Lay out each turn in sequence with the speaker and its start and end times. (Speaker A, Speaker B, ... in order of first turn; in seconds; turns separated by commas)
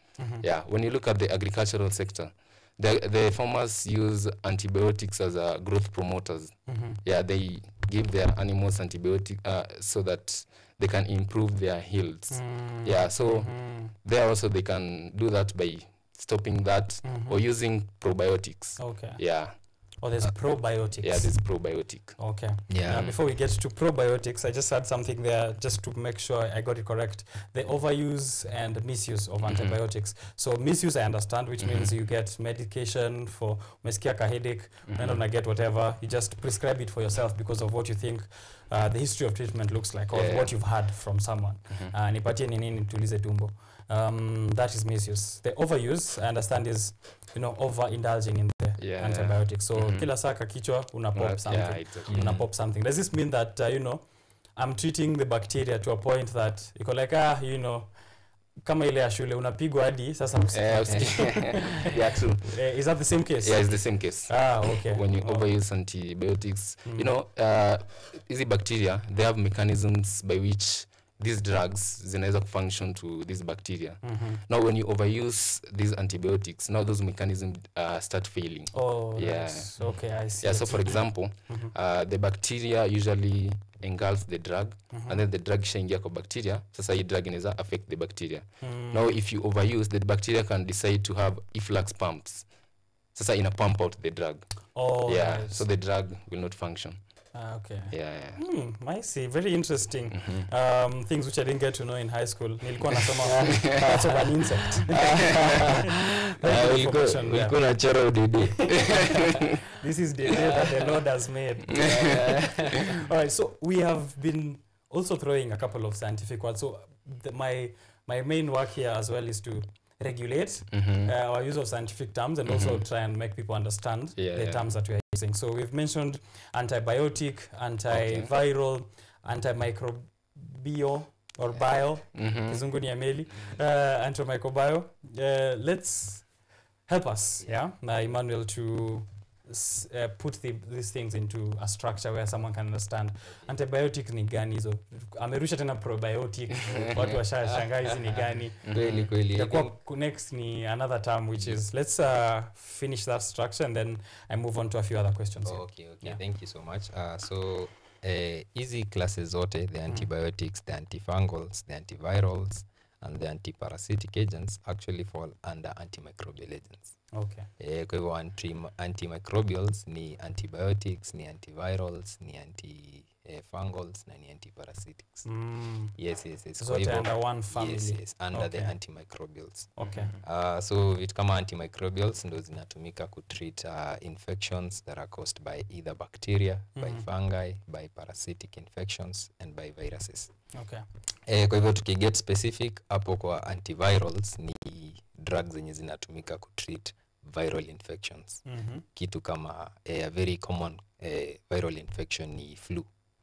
Speaker A: 0.2-0.4, Speaker B: 0.4-19.6, Speaker A: 6.7-7.0, Speaker A: 12.3-13.9, Speaker A: 17.0-17.4, Speaker A: 18.8-54.0, Speaker B: 21.0-22.2, Speaker C: 22.7-23.1, Speaker B: 29.5-29.8, Speaker B: 31.6-31.9, Speaker B: 34.9-35.2, Speaker B: 40.1-40.5, Speaker B: 48.8-50.1, Speaker B: 51.1-52.2, Speaker C: 52.1-52.5, Speaker A: 54.6-57.9, Speaker A: 58.6-65.5, Speaker B: 60.5-62.6, Speaker B: 63.4-92.5, Speaker A: 74.0-74.4, Speaker A: 78.7-81.7, Speaker A: 84.9-85.2, Speaker A: 88.6-89.1, Speaker B: 93.1-97.0, Speaker A: 94.8-95.6, Speaker A: 97.3-107.6, Speaker B: 97.9-98.4, Speaker B: 100.2-100.5, Speaker C: 103.2-109.4, Speaker B: 103.4-103.8, Speaker B: 108.7-109.5, Speaker A: 109.6-136.3, Speaker C: 110.3-110.8, Speaker B: 111.7-112.5, Speaker C: 111.7-112.9, Speaker B: 120.7-121.1, Speaker B: 122.5-122.8, Speaker B: 124.2-124.7, Speaker B: 127.9-128.3, Speaker B: 132.1-132.6, Speaker A: 136.9-156.2, Speaker B: 146.7-147.2, Speaker C: 146.8-149.7, Speaker B: 148.6-149.1, Speaker C: 155.4-167.0, Speaker A: 167.1-167.5, Speaker C: 167.6-175.3, Speaker A: 175.2-175.9, Speaker C: 175.9-190.3, Speaker A: 176.6-178.7, Speaker A: 179.8-180.1, Speaker B: 179.8-180.1, Speaker A: 186.8-187.1, Speaker A: 190.5-190.8, Speaker C: 191.3-198.4, Speaker A: 198.5-198.8, Speaker C: 198.9-202.9